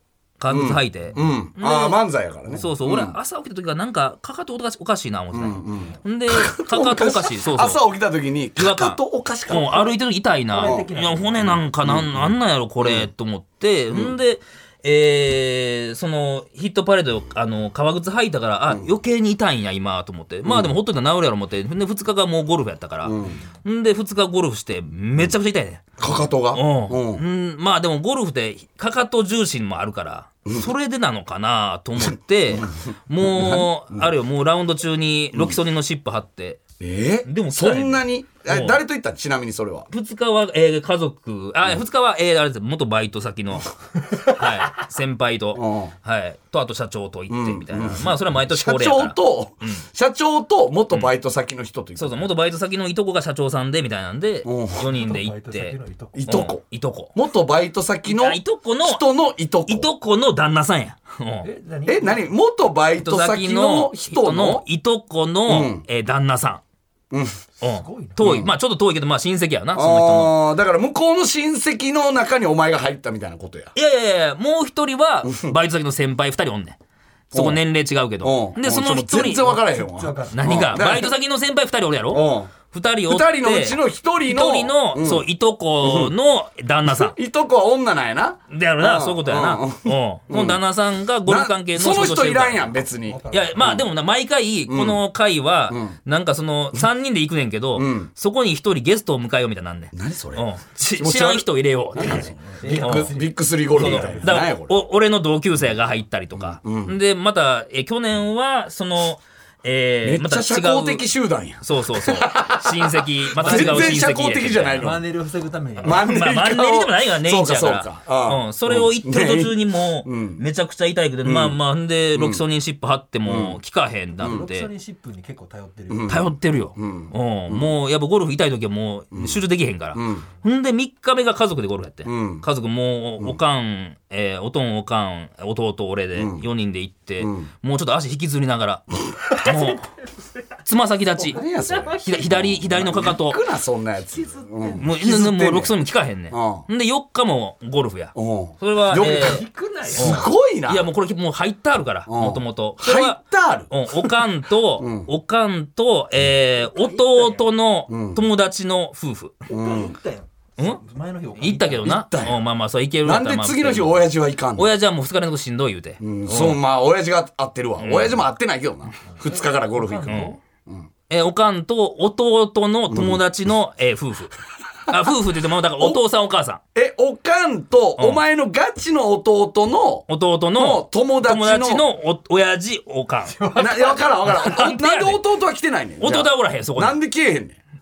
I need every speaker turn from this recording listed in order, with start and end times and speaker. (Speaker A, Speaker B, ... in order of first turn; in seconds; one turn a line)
Speaker A: 0.4-7.8
Speaker B: 0.5-3.2
Speaker B: 5.3-9.9
Speaker A: 8.6-36.6
Speaker C: 10.5-11.5
Speaker B: 10.6-13.1
Speaker B: 20.4-20.8
Speaker B: 23.0-23.4
Speaker B: 26.0-27.2
Speaker B: 30.5-30.7
Speaker B: 32.0-34.1
Speaker B: 35.3-35.6
Speaker B: 36.8-39.9
Speaker A: 37.3-38.8
Speaker A: 39.9-49.9
Speaker B: 45.5-45.9
Speaker B: 47.3-52.3
Speaker A: 52.0-57.1
Speaker B: 54.5-54.9
Speaker C: 54.9-56.5
Speaker B: 56.1-56.6
Speaker B: 57.1-59.9
Speaker A: 58.1-59.1
Speaker A: 59.7-61.5
Speaker C: 61.4-62.3
Speaker B: 61.9-64.7
Speaker A: 63.0-66.6
Speaker B: 65.5-65.8
Speaker B: 67.1-67.4
Speaker A: 67.6-70.4
Speaker C: 67.6-68.2
Speaker B: 68.2-68.5
Speaker B: 69.7-73.7
Speaker A: 73.8-76.8
Speaker B: 75.3-75.5
Speaker A: 77.3-79.6
Speaker B: 77.3-77.6
Speaker B: 78.2-81.2
Speaker C: 79.7-80.6
Speaker A: 80.3-87.2
Speaker B: 82.1-82.5
Speaker B: 83.1-85.3
Speaker B: 85.8-86.1
Speaker B: 86.9-90.6
Speaker A: 88.5-103.2
Speaker B: 91.3-93.9
Speaker C: 93.0-93.7
Speaker B: 94.7-95.0
Speaker B: 95.7-96.0
Speaker B: 97.8-98.1
Speaker B: 99.9-104.8
Speaker C: 102.2-104.3
Speaker A: 103.7-111.1
Speaker B: 106.3-107.0
Speaker B: 110.0-115.0
Speaker A: 111.6-114.9
Speaker C: 113.4-114.0
Speaker C: 114.8-116.0
Speaker B: 115.8-120.4
Speaker A: 115.8-124.7
Speaker B: 121.2-121.6
Speaker B: 122.1-122.4
Speaker B: 123.2-123.6
Speaker C: 124.2-126.3
Speaker B: 125.9-127.7
Speaker A: 126.1-139.9
Speaker B: 129.1-129.4
Speaker B: 129.9-130.3
Speaker B: 132.1-132.5
Speaker B: 136.2-136.4
Speaker B: 137.2-137.5
Speaker A: 140.6-141.4
Speaker B: 141.2-145.8
Speaker C: 141.6-143.2
Speaker A: 142.0-143.4
Speaker C: 144.0-144.9
Speaker A: 144.8-159.3
Speaker B: 146.3-146.7
Speaker B: 148.2-150.9
Speaker C: 148.9-150.3
Speaker B: 152.1-154.2
Speaker B: 154.8-155.1
Speaker C: 156.7-157.4
Speaker B: 157.9-158.3
Speaker C: 159.5-161.9
Speaker B: 159.5-160.0
Speaker A: 161.4-166.6
Speaker B: 161.8-162.4
Speaker B: 163.0-164.7
Speaker B: 166.0-170.9
Speaker A: 167.8-168.2
Speaker C: 169.1-170.4
Speaker A: 170.1-170.4
Speaker A: 171.1-176.6
Speaker B: 172.9-173.2
Speaker B: 176.8-181.9
Speaker A: 178.0-178.2
Speaker A: 180.1-183.6
Speaker C: 183.3-184.1
Speaker B: 183.6-187.6
Speaker A: 184.2-185.2
Speaker A: 186.0-187.0